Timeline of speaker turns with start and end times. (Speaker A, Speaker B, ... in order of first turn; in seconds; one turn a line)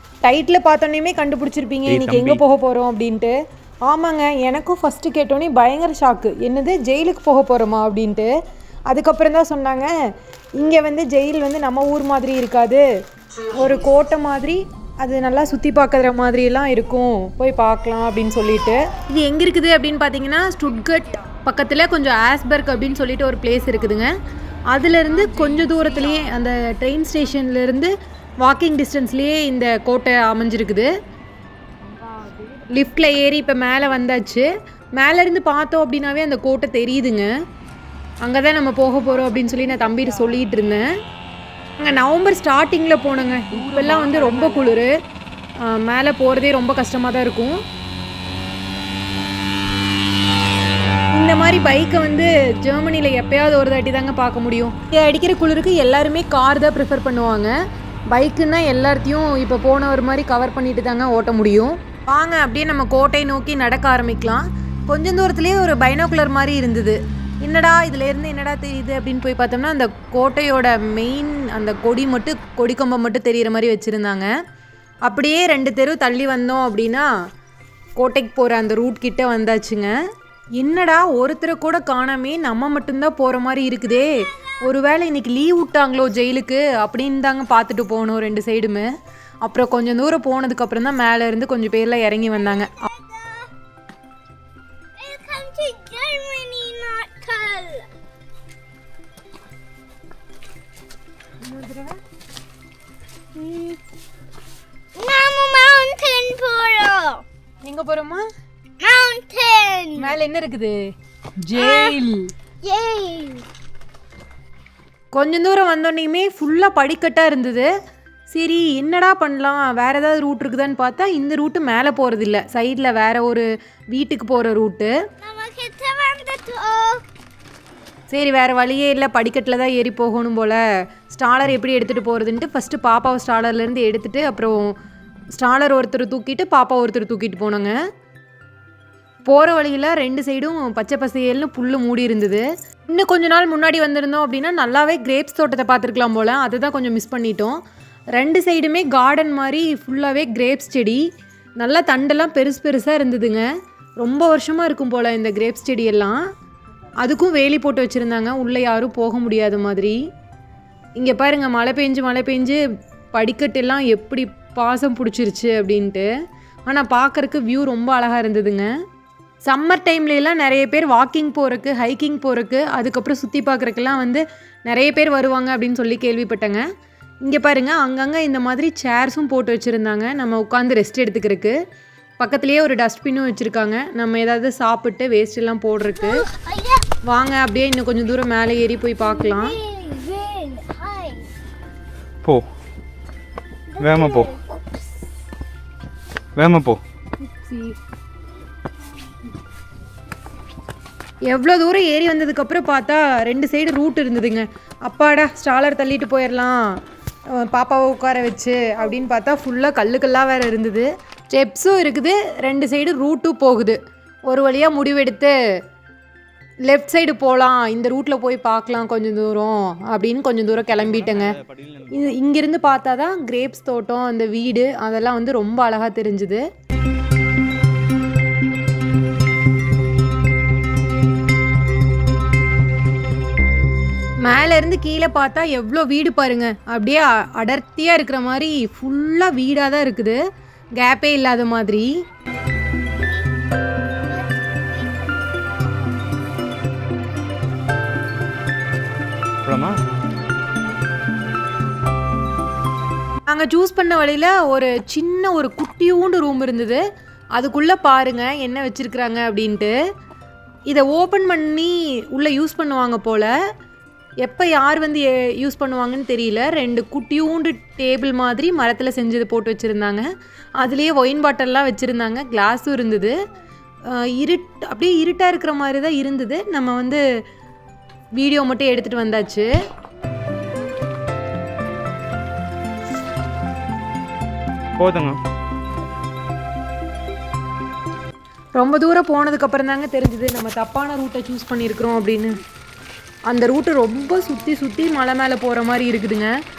Speaker A: 0.2-8.3
Speaker B: 1.9-2.4
Speaker A: 8.9-9.9
Speaker A: 10.6-12.8
Speaker A: 13.5-24.1
Speaker A: 24.7-30.9
Speaker A: 32.0-37.3
Speaker A: 38.2-40.9
Speaker A: 41.8-44.9
Speaker A: 45.6-47.6
Speaker A: 51.1-57.5
Speaker A: 58.1-74.3
Speaker A: 75.0-77.1
Speaker A: 78.0-79.9
Speaker A: 80.6-88.9
Speaker A: 89.4-92.9
Speaker C: 92.7-93.5
Speaker C: 95.0-97.9
Speaker A: 101.4-102.0
Speaker C: 103.3-103.8
Speaker C: 105.0-107.2
Speaker A: 107.6-108.2
Speaker C: 108.8-110.1
Speaker A: 109.9-110.8
Speaker A: 111.4-112.3
Speaker C: 111.5-112.0
Speaker C: 112.6-113.5
Speaker A: 115.1-117.7
Speaker A: 118.3-124.9
Speaker C: 125.2-127.0
Speaker A: 128.1-134.7
Speaker A: 135.3-137.8
Speaker A: 139.3-147.6
Speaker A: 148.2-151.0
Speaker A: 151.6-153.4
Speaker A: 154.0-156.2
Speaker A: 157.0-160.0
Speaker A: 161.0-162.6
Speaker A: 163.1-166.1
Speaker A: 166.7-168.7
Speaker A: 169.4-176.6
Speaker A: 177.2-181.5
Speaker A: 182.2-186.2
Speaker C: 186.0-186.8
Speaker A: 187.0-189.6
Speaker C: 189.0-191.3
Speaker C: 193.7-194.4
Speaker B: 193.8-194.3
Speaker B: 196.3-196.8
Speaker A: 197.3-197.7
Speaker A: 201.3-206.8
Speaker A: 207.4-215.3
Speaker A: 216.7-221.3
Speaker B: 220.7-222.2
Speaker A: 221.9-226.4
Speaker A: 234.2-240.2
Speaker A: 240.8-241.9
Speaker C: 242.9-243.3
Speaker C: 244.1-246.1
Speaker B: 249.4-249.8
Speaker A: 253.3-256.8
Speaker A: 257.4-259.7
Speaker A: 260.7-263.3
Speaker A: 264.2-270.1
Speaker A: 270.6-273.1
Speaker A: 273.9-277.0
Speaker A: 278.2-279.5
Speaker B: 284.8-285.2
Speaker A: 288.5-292.4
Speaker A: 293.3-296.3